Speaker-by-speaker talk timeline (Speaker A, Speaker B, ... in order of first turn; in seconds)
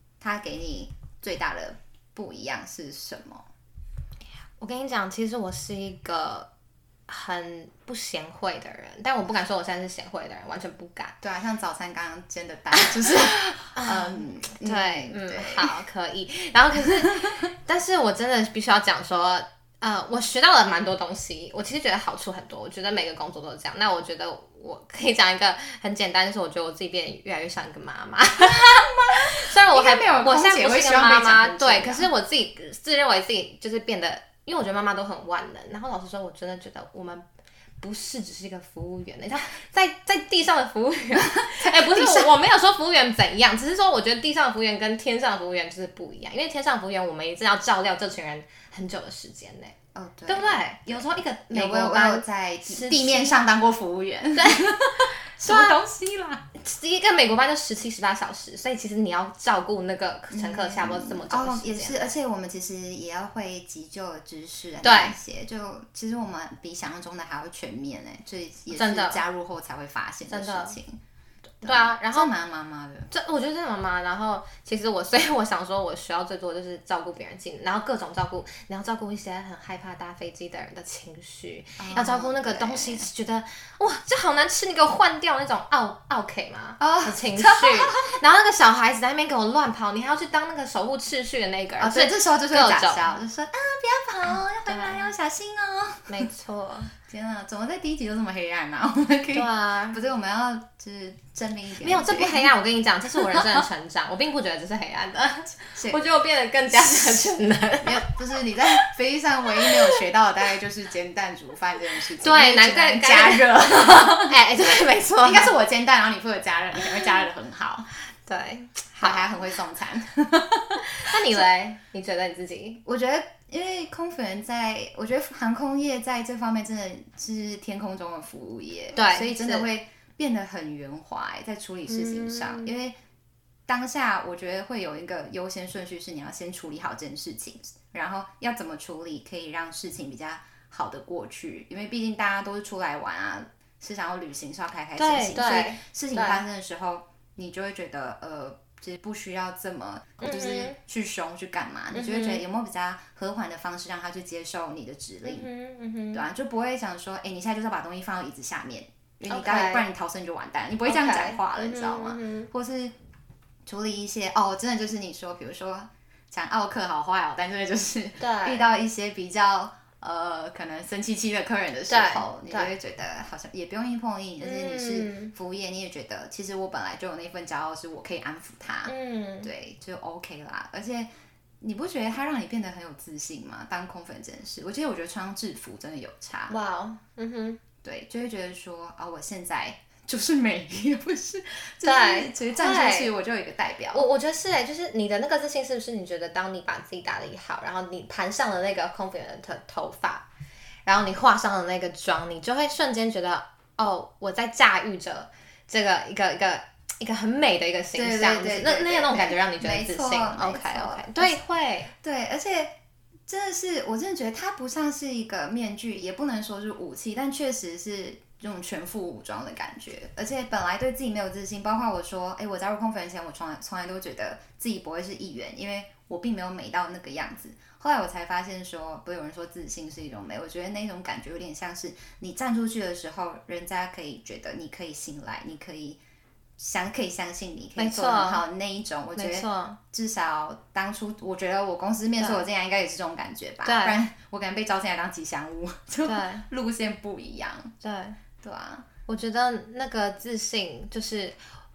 Speaker A: 0.2-3.4, 11.2-15.8, 28.4-32.1, 41.2-42.3, 49.9-56.4, 60.3-71.0, 71.6-73.1, 81.8-83.1, 86.8-88.2, 91.8-96.3, 97.1-102.5, 103.3-103.6, 105.7-106.0, 106.7-114.3, 115.2-117.9, 119.0-121.4, 122.8-132.9, 133.7-155.5, 156.1-162.9, 163.7-181.1, 181.6-186.6, 187.8-194.1, 207.9-211.4, 212.0-212.7, 213.3-236.0, 236.6-247.7, 248.4-248.8
Speaker B: 4.6-6.5, 7.1-11.2, 13.8-37.2, 37.8-49.8, 50.3-53.4, 54.4-55.8, 56.6-62.1, 64.8-65.2, 68.7-69.2, 70.3-70.8, 71.6-72.3, 73.1-93.1, 94.7-95.1, 96.1-96.9, 99.3-100.0, 101.8-108.2, 109.6-110.0, 112.2-115.5, 118.2-119.3, 121.0-122.8, 128.9-129.7, 131.9-132.7, 145.0-146.4, 150.2-150.8, 151.9-152.4, 155.2-156.2, 159.3-159.8, 160.8-162.5, 168.2-168.7, 171.9-172.7, 174.4-175.3, 178.8-179.5, 186.5-187.6, 191.8-193.1, 193.9-200.2, 200.8-211.9, 237.8-238.4, 239.2-239.8, 242.2-242.4, 243.6-244.0, 246.0-246.4, 247.8-248.2, 249.1-251.4